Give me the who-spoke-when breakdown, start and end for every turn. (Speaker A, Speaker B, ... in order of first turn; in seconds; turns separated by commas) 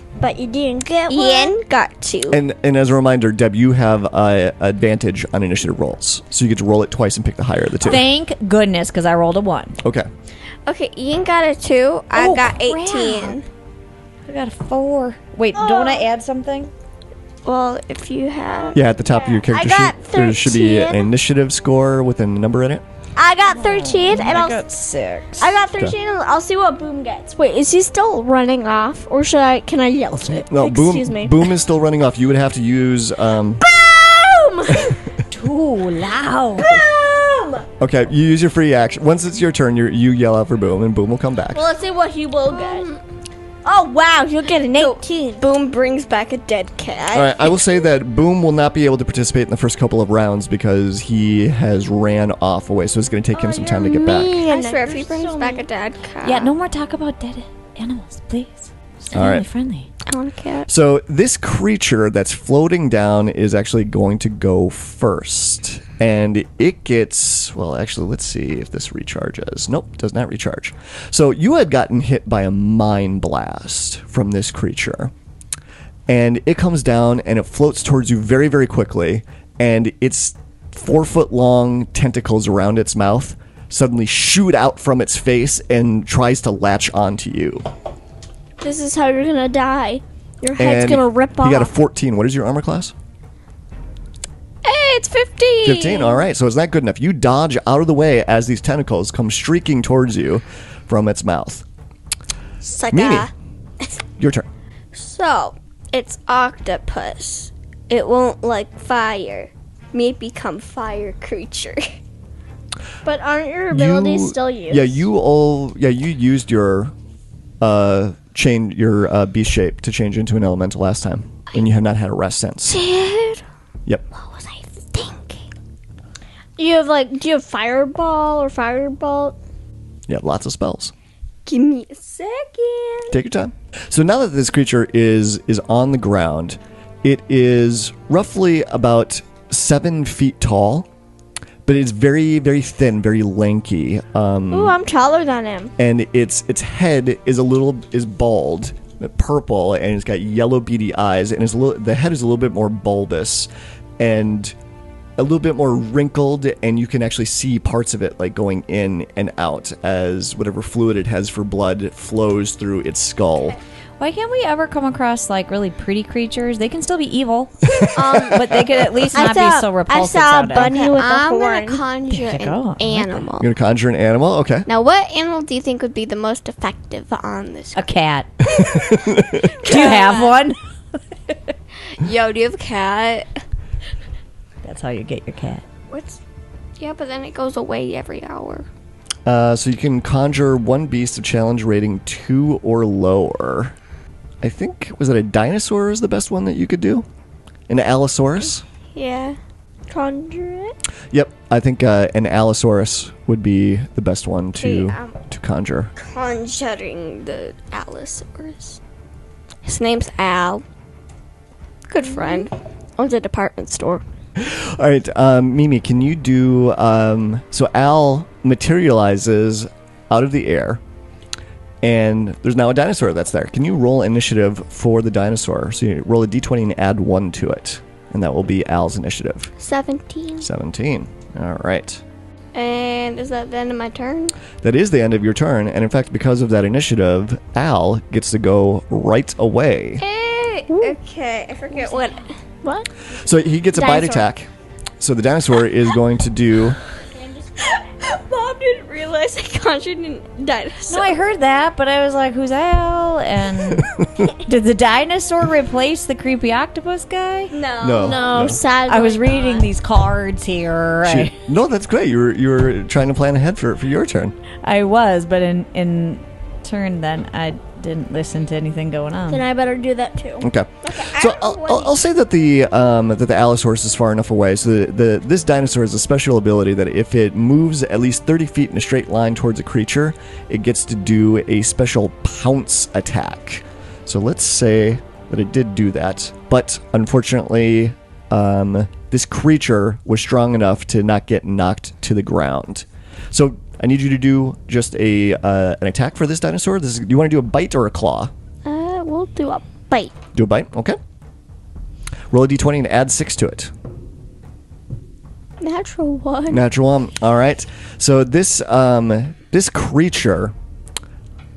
Speaker A: 0.2-1.5, Speaker B: 1.1-2.4, Speaker C: 2.3-8.0, Speaker D: 7.8-9.8, Speaker C: 9.8-10.1, Speaker B: 10.7-13.4, Speaker D: 12.1-13.4, Speaker D: 14.2-16.7, Speaker A: 15.6-16.0, Speaker B: 17.4-18.8, Speaker C: 18.7-22.8, Speaker A: 18.7-21.1, Speaker A: 23.1-24.6, Speaker D: 23.5-25.5, Speaker A: 25.4-31.5, Speaker C: 30.5-33.6, Speaker A: 33.6-35.1, Speaker D: 35.3-36.7, Speaker A: 36.6-37.6, Speaker C: 37.8-41.6, Speaker A: 41.5-43.0, Speaker B: 42.5-43.0, Speaker A: 43.6-45.4, Speaker B: 44.7-47.4, Speaker C: 47.1-54.4, Speaker A: 53.3-55.6, Speaker B: 54.0-56.5, Speaker D: 56.2-59.9, Speaker C: 59.1-59.5, Speaker B: 60.0-60.7, Speaker C: 60.7-75.1, Speaker C: 76.1-87.7, Speaker A: 88.6-91.7, Speaker C: 90.6-92.9, Speaker B: 94.6-96.2, Speaker C: 95.6-101.6, Speaker B: 102.6-103.9, Speaker C: 102.9-103.3, Speaker C: 104.2-104.5, Speaker B: 104.9-112.0, Speaker A: 113.0-115.0, Speaker C: 113.7-116.9, Speaker C: 117.6-122.8, Speaker B: 122.7-123.4, Speaker B: 124.2-125.4, Speaker A: 126.6-129.3, Speaker C: 130.1-130.9, Speaker B: 131.4-133.2, Speaker C: 133.1-140.9, Speaker C: 141.6-144.8, Speaker A: 144.5-145.7, Speaker C: 145.8-154.5, Speaker C: 155.2-163.6, Speaker D: 164.0-170.7, Speaker C: 167.8-169.1, Speaker B: 167.9-168.4, Speaker A: 169.1-171.8, Speaker B: 170.5-173.5, Speaker D: 172.1-173.2, Speaker C: 173.4-174.7, Speaker B: 174.7-177.9, Speaker D: 177.7-178.3, Speaker C: 178.5-179.5, Speaker B: 179.5-180.3, Speaker D: 179.6-180.6, Speaker B: 181.9-183.3, Speaker D: 184.6-185.6, Speaker B: 185.9-186.2, Speaker B: 186.8-188.7, Speaker C: 189.2-193.7, Speaker C: 194.4-197.1, Speaker C: 197.7-198.6, Speaker B: 198.9-199.4, Speaker A: 199.9-200.8, Speaker C: 201.1-205.9, Speaker B: 204.6-205.2, Speaker B: 206.0-208.8, Speaker B: 209.6-210.6, Speaker B: 211.9-214.0, Speaker C: 214.4-220.8, Speaker C: 221.8-229.5, Speaker B: 229.6-230.5, Speaker C: 230.4-232.0, Speaker B: 232.5-234.3, Speaker C: 234.6-240.0, Speaker B: 240.0-242.3, Speaker A: 240.7-240.9, Speaker A: 242.6-242.9, Speaker C: 243.1-244.5, Speaker A: 243.7-244.3, Speaker C: 245.0-246.8, Speaker A: 247.2-247.8, Speaker B: 248.0-251.2, Speaker D: 250.9-257.5, Speaker C: 253.7-254.3, Speaker B: 257.5-258.6, Speaker C: 257.8-258.6, Speaker A: 258.0-259.7, Speaker D: 258.9-261.4, Speaker C: 261.0-264.3, Speaker D: 264.6-269.4, Speaker A: 269.3-270.5, Speaker C: 270.4-298.3, Speaker B: 270.8-271.9, Speaker B: 298.6-300.1, Speaker C: 300.3-301.0, Speaker C: 302.3-303.7, Speaker B: 305.6-306.6, Speaker C: 306.5-310.5